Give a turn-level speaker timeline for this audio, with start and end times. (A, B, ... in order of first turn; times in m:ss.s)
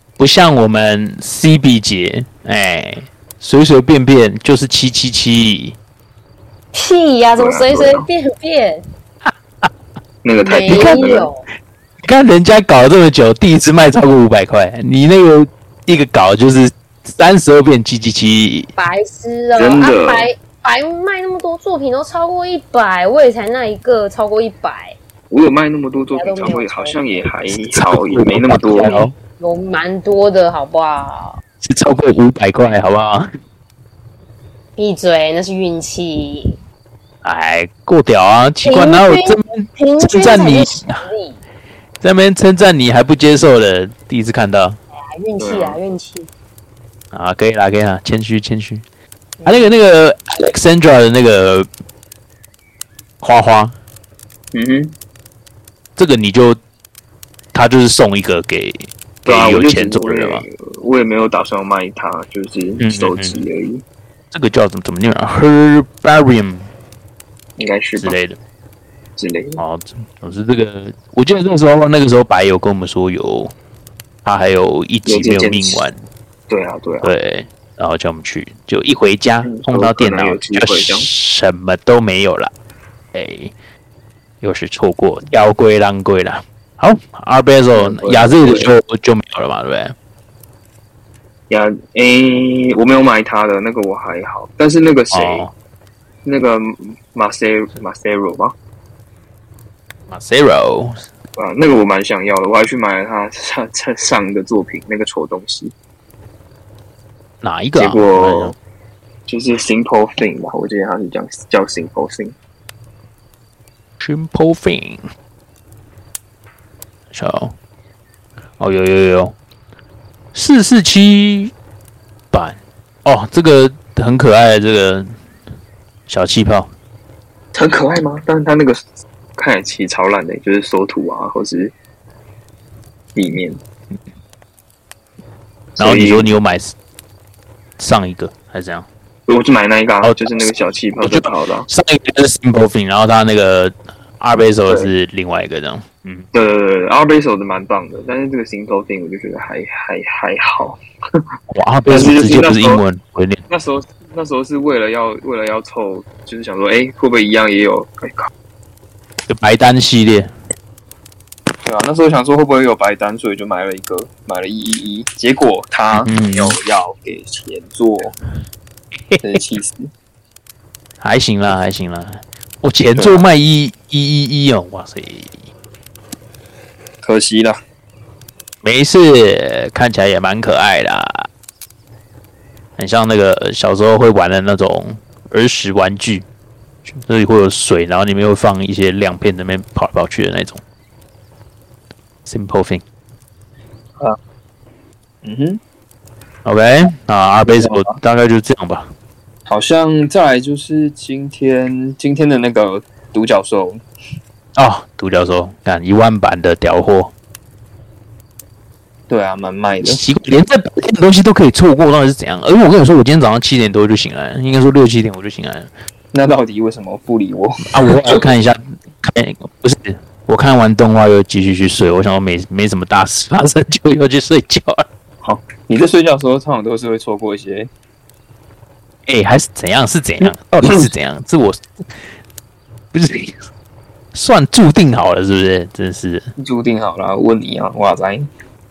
0:00.2-0:05.8 A
0:06.7-0:08.8 B
0:07.4-0:08.1 C
0:09.3-0:09.7 A
0:10.2-0:11.3 C
0:10.4-0:11.4 B
0:10.7-0:11.0 A
0:12.0-0:18.7 A
0:18.8-0:25.0 B
0:19.5-0:20.3 C
0:25.3-0:29.0 C
0:26.1-0:27.1 B
0:27.6-0:29.1 A
0:28.7-0:31.4 B
0:31.6-0:33.3 A
0:34.8-0:36.6 B
0:37.2-0:41.0 A
0:38.6-0:41.4 B
0:42.0-0:44.8 A
0:45.0-0:46.3 B
0:45.4-0:45.8 C
0:47.1-0:48.8 A
0:49.4-0:49.7 B
0:49.4-0:51.7 A
0:53.2-0:53.7 A
0:54.5-0:54.9 C
0:56.0-0:56.6 A
0:57.5-1:00.4 A
0:59.2-1:03.8 C
1:02.8-1:03.4 A
1:04.3-1:06.7 A
1:07.6-1:08.2 C
1:08.0-1:08.4 A
1:09.2-1:09.6 C
1:09.6-1:13.5 A
1:14.2-1:16.1 A
1:15.0-1:15.8 C
1:16.5-1:17.1 C
1:17.0-1:22.5 A
1:19.4-1:21.1 C
1:23.1-1:23.5 A
1:24.4-1:29.9 A
1:27.7-1:28.7 C
1:31.5-1:35.4 C
1:35.1-1:35.5 A
1:36.2-1:38.5 C
1:40.1-1:41.0 A
1:41.4-1:45.7 C
1:47.4-1:48.5 A
1:47.8-1:48.6 C
1:49.3-1:52.4 C
1:54.0-1:55.0 A
1:57.1-1:57.5 A
1:58.6-1:59.4 A
2:00.3-2:01.5 A
2:02.3-2:05.1 A
2:06.1-2:06.7 A
2:07.5-2:08.8 C
2:09.4-2:11.7 C
2:13.1-2:13.6 C
2:15.8-2:16.3 C
2:15.8-2:16.7 A
2:17.8-2:18.9 A
2:19.3-2:21.7 C
2:20.0-2:26.2 A
2:26.3-2:30.8 C
2:31.5-2:33.4 A
2:31.9-2:32.8 C
2:33.5-2:38.3 C
2:39.3-2:40.3 A
2:41.6-2:48.1 C
2:45.9-2:46.6 A
2:49.2-2:49.9 C
2:51.0-2:55.4 A
2:52.9-2:53.2 C
2:57.0-2:57.6 C
2:58.6-3:01.3 A
3:02.8-3:06.2 A
3:06.9-3:10.6 A
3:12.2-3:12.8 A
3:15.2-3:15.6 C
3:16.4-3:18.9 A
3:17.5-3:18.0 C
3:19.5-3:23.8 C
3:24.6-3:27.1 A
3:29.1-3:30.0 C
3:29.8-3:35.7 A
3:36.1-3:38.2 C
3:37.7-3:44.8 A
3:45.2-3:47.7 C
3:49.1-3:51.6 A
3:52.9-3:53.4 A
3:54.1-3:56.3 A
3:56.4-3:58.3 C